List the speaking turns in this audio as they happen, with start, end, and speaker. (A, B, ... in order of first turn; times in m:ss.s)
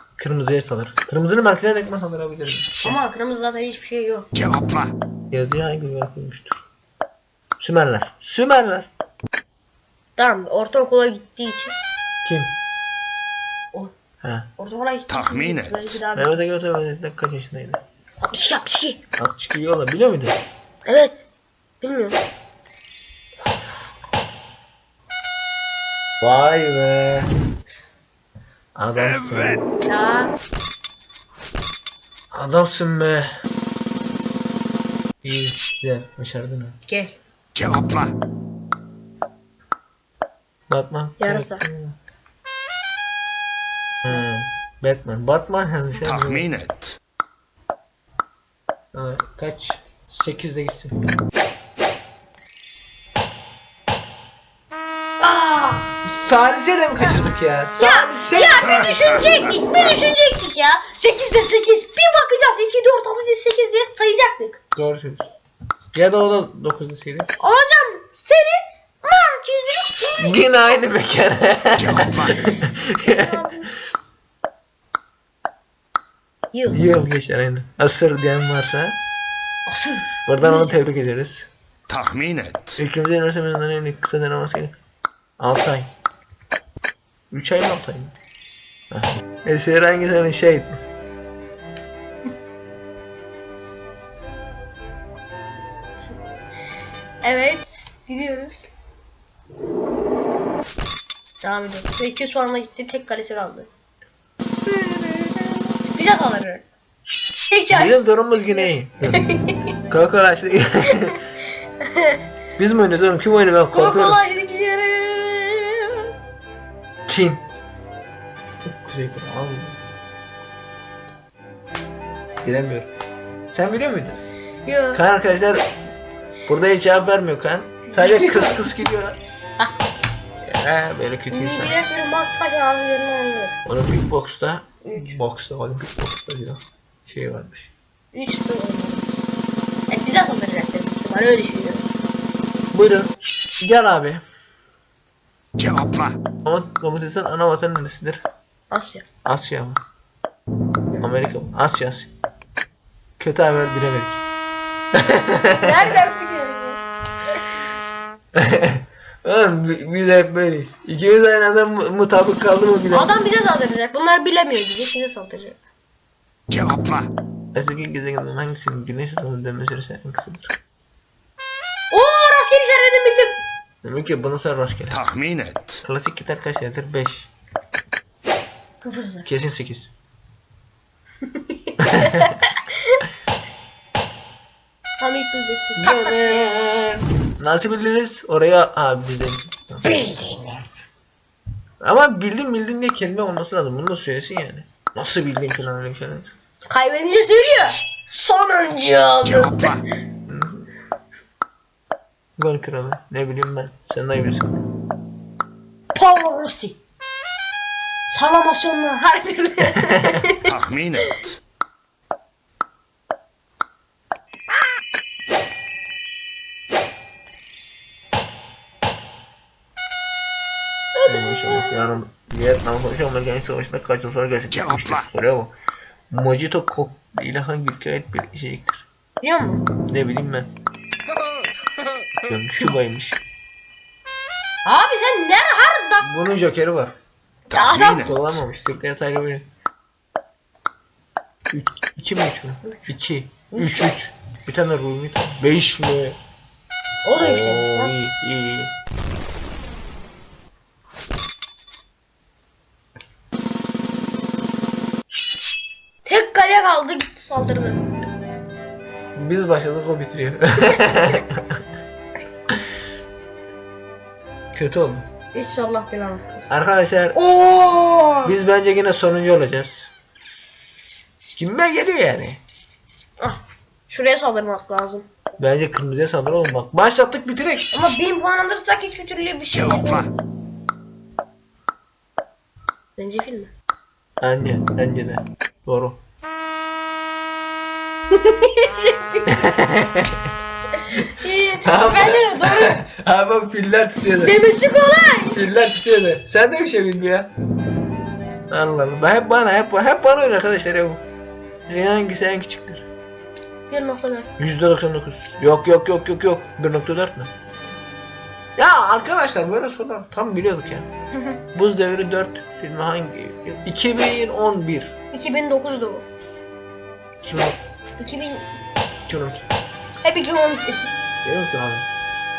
0:00.2-0:03.0 A
0:02.8-0:04.3 B
0:05.3-0:06.6 A
0:07.6-0:08.9 A
0:10.2-0:11.7 B
0:12.2-0:12.5 A
0:14.2-0:14.5 A
0:14.6-0:16.4 B
0:15.1-0:15.7 C
0:16.2-0:17.8 A
0:18.2-0:19.0 B
0:19.2-0:20.4 A
0:20.8-0:21.2 B
0:21.8-0:22.2 B
0:26.2-0:27.3 A
0:28.8-0:29.7 A
0:29.8-0:30.3 B
0:32.3-0:33.3 A
0:35.2-0:36.8 A
0:36.9-0:37.2 B
0:40.7-0:42.0 A
0:41.2-0:41.6 B
0:44.0-0:46.6 A
0:48.9-0:50.9 A
0:55.2-0:55.9 B
0:56.0-0:59.2 A
0:57.8-1:04.6 B
1:04.8-1:05.3 A
1:05.9-1:07.3 A
1:07.4-1:10.6 B
1:10.2-1:13.5 A
1:11.8-1:12.2 C
1:13.0-1:13.7 B
1:16.5-1:16.8 B
1:16.7-1:19.0 A
1:19.7-1:20.7 B
1:20.3-1:21.5 A
1:21.9-1:22.8 C
1:22.8-1:24.8 A
1:25.4-1:25.9 A
1:27.3-1:28.1 A
1:28.9-1:30.8 A
1:37.2-1:38.7 B
1:41.4-1:43.7 B
1:44.6-1:46.6 B
1:47.5-1:49.7 B
1:47.7-1:49.3 A
1:49.9-1:51.2 A
1:50.9-1:51.2 B
1:51.8-1:52.2 B
1:52.6-1:54.2 A
1:53.7-1:56.1 B
1:57.1-1:57.4 A
1:58.6-1:59.8 A
2:02.4-2:02.9 A
2:03.5-2:04.2 A
2:04.6-2:05.0 B
2:04.9-2:05.7 A
2:06.5-2:09.2 A
2:07.9-2:08.7 B
2:09.6-2:09.9 B
2:10.4-2:11.8 A
2:11.3-2:13.6 B
2:13.6-2:17.7 A
2:14.8-2:15.2 B
2:18.1-2:19.1 B
2:19.9-2:21.9 B
2:22.7-2:24.2 A
2:26.4-2:28.2 A
2:28.7-2:29.1 B
2:29.2-2:29.8 A
2:31.0-2:32.1 A
2:33.2-2:34.2 A
2:34.9-2:36.0 A
2:35.5-2:36.8 B
2:38.3-2:43.2 A
2:42.9-2:45.6 B
2:46.5-2:46.9 C
2:47.5-2:50.5 A
2:51.9-2:53.4 B
2:53.8-2:55.0 A
2:54.9-2:55.8 C
2:55.8-2:57.3 A
2:58.8-2:59.3 B
2:59.2-2:59.9 A
3:01.3-3:03.0 B
3:01.8-3:02.4 A
3:05.0-3:06.4 B
3:05.8-3:09.9 A
3:09.8-3:10.7 B
3:11.8-3:16.3 A
3:16.7-3:19.8 B
3:20.3-3:20.7 A
3:22.4-3:24.6 A
3:25.9-3:26.8 B
3:28.1-3:31.2 B
3:30.4-3:31.2 C
3:40.9-3:41.9 B
3:41.1-3:45.5 A
3:46.1-3:48.8 A
3:49.2-3:49.6 B
3:49.9-3:50.5 A
3:52.3-3:53.2 A
3:54.6-3:56.1 B
3:56.0-3:56.9 A
3:57.5-3:58.1 B
3:57.8-3:59.4 A
4:01.5-4:06.2 A
4:03.5-4:03.8 B
4:07.0-4:07.9 B
4:07.2-4:08.7 A
4:16.0-4:17.8 B
4:19.2-4:21.6 A
4:24.5-4:25.0 A
4:25.3-4:26.5 B
4:26.5-4:27.2 A
4:27.1-4:28.4 B
4:28.2-4:29.9 A
4:31.4-4:32.4 A
4:33.2-4:35.1 B
4:35.4-4:37.7 A
4:37.7-4:40.1 B
4:43.0-4:43.5 B
4:44.2-4:46.0 A
4:48.1-4:49.4 B
4:49.3-4:50.3 A
4:50.8-4:52.8 B
4:51.6-4:54.3 A
4:54.2-4:55.4 B
4:55.3-4:57.3 A
4:58.5-5:01.0 A
5:01.7-5:02.8 A
5:03.7-5:04.3 B
5:04.4-5:07.3 A
5:08.6-5:10.9 A
5:11.1-5:11.4 B
5:11.5-5:14.9 A
5:15.1-5:16.0 B
5:17.2-5:17.6 A
5:18.0-5:18.4 B
5:19.1-5:19.4 A
5:20.0-5:20.9 B
5:21.2-5:21.9 A